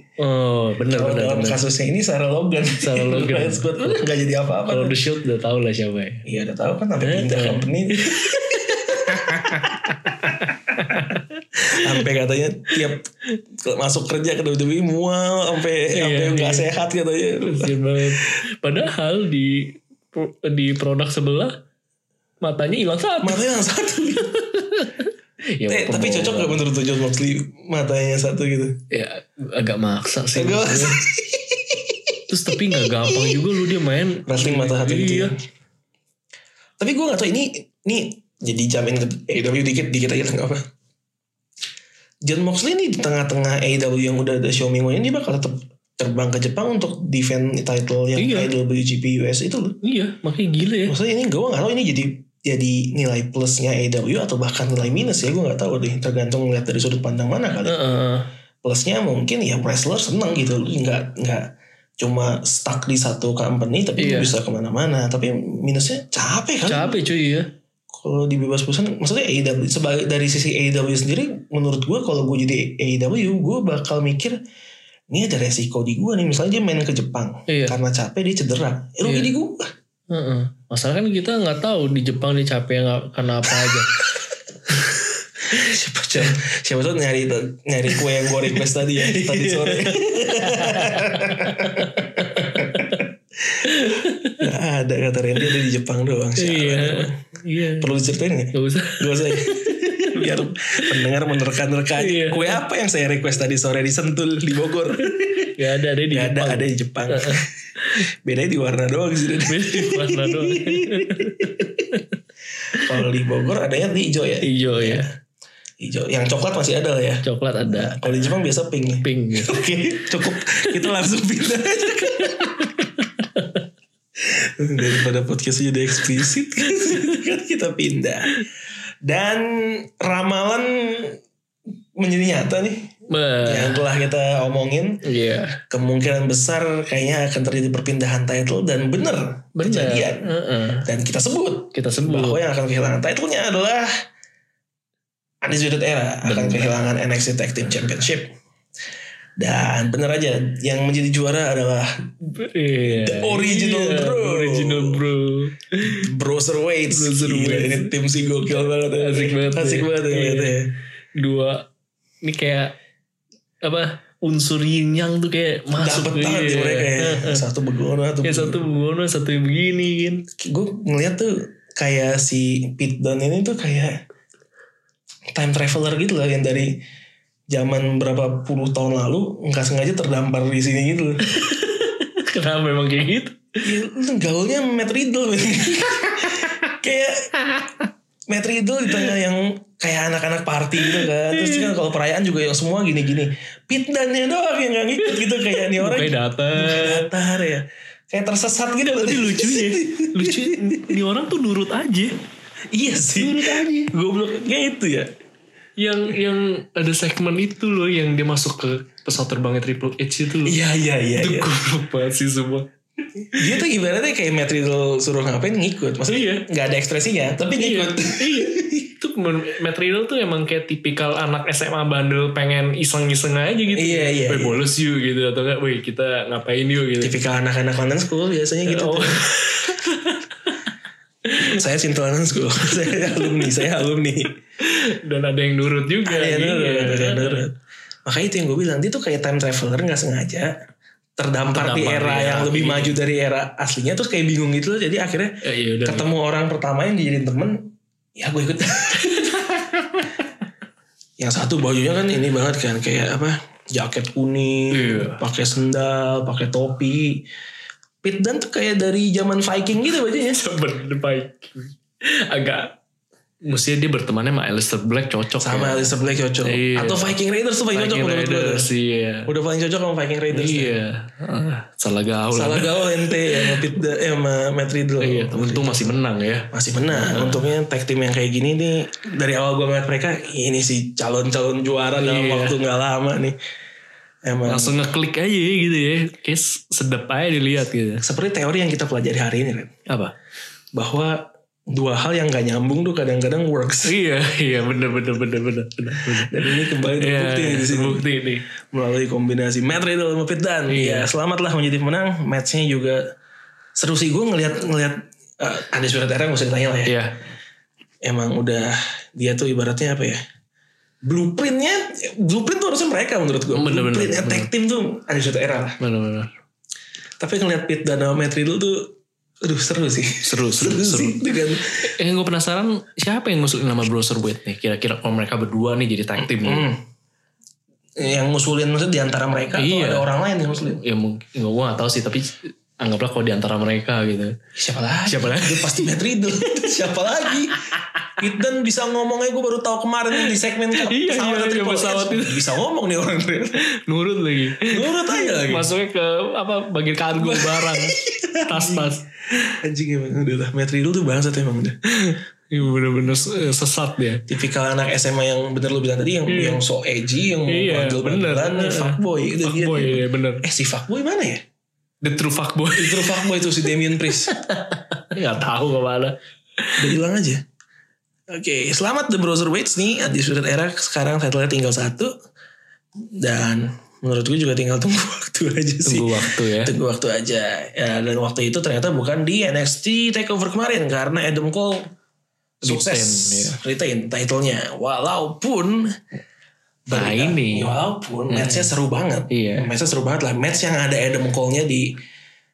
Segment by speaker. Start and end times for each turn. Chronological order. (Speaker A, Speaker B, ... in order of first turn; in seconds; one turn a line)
Speaker A: 0.2-1.6
Speaker B: 0.9-5.0
Speaker A: 2.8-4.0
Speaker A: 4.7-6.2
Speaker B: 6.2-10.3
Speaker A: 7.0-12.0
Speaker B: 11.6-18.2
Speaker A: 15.9-16.7
Speaker A: 17.4-21.6
Speaker A: 22.4-23.4
Speaker B: 23.2-24.4
Speaker A: 24.3-26.6
Speaker B: 25.7-28.8
Speaker A: 28.9-31.0
Speaker B: 30.3-33.5
Speaker A: 32.3-35.3
Speaker B: 34.2-35.4
Speaker B: 36.8-40.6
Speaker B: 42.2-49.8
Speaker A: 48.1-48.5
Speaker A: 49.8-51.0
Speaker B: 50.9-57.8
Speaker A: 57.6-58.3
Speaker B: 58.6-67.0
Speaker A: 64.0-64.3
Speaker A: 66.7-67.5
Speaker B: 67.9-74.4
Speaker B: 75.1-79.7
Speaker A: 77.5-77.8
Speaker A: 79.0-79.3
Speaker A: 80.1-84.0
Speaker B: 85.4-97.2
Speaker A: 85.5-86.3
Speaker A: 87.9-93.1
Speaker A: 93.6-94.4
Speaker A: 96.4-97.9
Speaker B: 97.8-105.5
Speaker A: 98.5-101.0
Speaker A: 102.0-102.6
Speaker A: 105.0-108.0
Speaker B: 106.1-111.9
Speaker A: 109.5-112.2
Speaker B: 112.7-115.1
Speaker A: 114.4-115.1
Speaker B: 115.8-122.8
Speaker A: 117.2-118.4
Speaker A: 118.9-119.6
Speaker A: 120.5-120.8
Speaker A: 122.1-123.6
Speaker B: 124.2-128.3
Speaker A: 126.8-127.1
Speaker B: 129.0-131.2
Speaker B: 131.9-135.0
Speaker A: 133.1-133.8
Speaker A: 135.0-135.6
Speaker B: 135.6-143.9
Speaker A: 139.6-140.9
Speaker A: 141.7-142.4
Speaker B: 145.4-148.3
Speaker A: 146.2-146.7
Speaker B: 149.4-151.9
Speaker A: 152.2-156.1
Speaker B: 152.8-155.1
Speaker B: 155.8-160.7
Speaker A: 156.9-157.9
Speaker A: 159.0-160.6
Speaker A: 161.2-161.7
Speaker A: 162.2-162.8
Speaker A: 163.6-167.4
Speaker B: 165.7-168.6
Speaker A: 168.2-170.2
Speaker B: 170.3-174.0
Speaker B: 175.3-176.8
Speaker B: 177.5-181.2
Speaker A: 181.2-183.6
Speaker B: 183.6-187.3
Speaker A: 186.2-186.6
Speaker A: 187.4-187.8
Speaker B: 188.3-201.0
Speaker A: 190.8-191.7
Speaker A: 195.0-197.1
Speaker A: 199.0-202.2
Speaker B: 202.7-205.1
Speaker A: 203.1-203.9
Speaker A: 205.8-210.6
Speaker B: 210.4-211.5
Speaker A: 211.2-212.7
Speaker B: 213.2-218.8
Speaker A: 216.0-216.4
Speaker A: 217.5-227.1
Speaker B: 223.7-224.7
Speaker B: 227.0-229.4
Speaker A: 228.6-230.6
Speaker A: 231.2-231.6
Speaker B: 231.3-234.4
Speaker A: 232.8-233.6
Speaker A: 234.6-237.5
Speaker B: 236.0-237.5
Speaker B: 238.1-240.5
Speaker B: 241.2-250.1
Speaker A: 241.5-243.0
Speaker A: 245.4-246.1
Speaker B: 251.2-257.2
Speaker A: 254.7-255.2
Speaker B: 258.0-260.4
Speaker A: 260.2-262.7
Speaker A: 263.4-265.9
Speaker B: 265.4-268.7
Speaker A: 266.4-267.2
Speaker A: 267.7-269.3
Speaker B: 269.3-270.8
Speaker A: 270.3-273.6
Speaker B: 272.3-276.0
Speaker A: 275.0-277.4
Speaker B: 276.5-283.4
Speaker A: 282.0-282.6
Speaker B: 284.2-284.8
Speaker A: 284.4-288.0
Speaker B: 288.0-289.7
Speaker A: 289.9-290.1
Speaker B: 290.8-293.9
Speaker A: 293.8-298.5
Speaker B: 296.0-298.1
Speaker B: 298.6-303.1
Speaker A: 300.7-301.1
Speaker B: 303.8-306.9
Speaker A: 306.9-307.2
Speaker B: 308.0-310.2
Speaker B: 311.0-315.8
Speaker A: 313.5-314.5
Speaker A: 315.8-316.3
Speaker B: 317.2-321.8
Speaker A: 320.2-321.2
Speaker A: 321.8-326.7
Speaker B: 326.2-326.8
Speaker B: 328.0-330.8
Speaker A: 329.6-334.4
Speaker B: 334.6-337.6
Speaker A: 335.1-335.9
Speaker B: 338.2-343.6
Speaker A: 340.2-342.5
Speaker A: 343.6-349.1
Speaker B: 344.7-345.7
Speaker B: 347.1-348.9
Speaker B: 349.5-351.8
Speaker A: 352.0-354.2
Speaker B: 354.3-361.4
Speaker A: 356.3-356.6
Speaker A: 357.5-360.4
Speaker A: 362.0-366.9
Speaker B: 362.8-364.3
Speaker B: 366.8-367.4
Speaker B: 368.3-372.1
Speaker B: 373.1-381.9
Speaker A: 375.8-376.7
Speaker A: 382.6-383.6
Speaker B: 382.6-385.8
Speaker B: 386.9-392.0
Speaker A: 386.9-387.7
Speaker A: 388.3-388.7
Speaker A: 389.3-389.7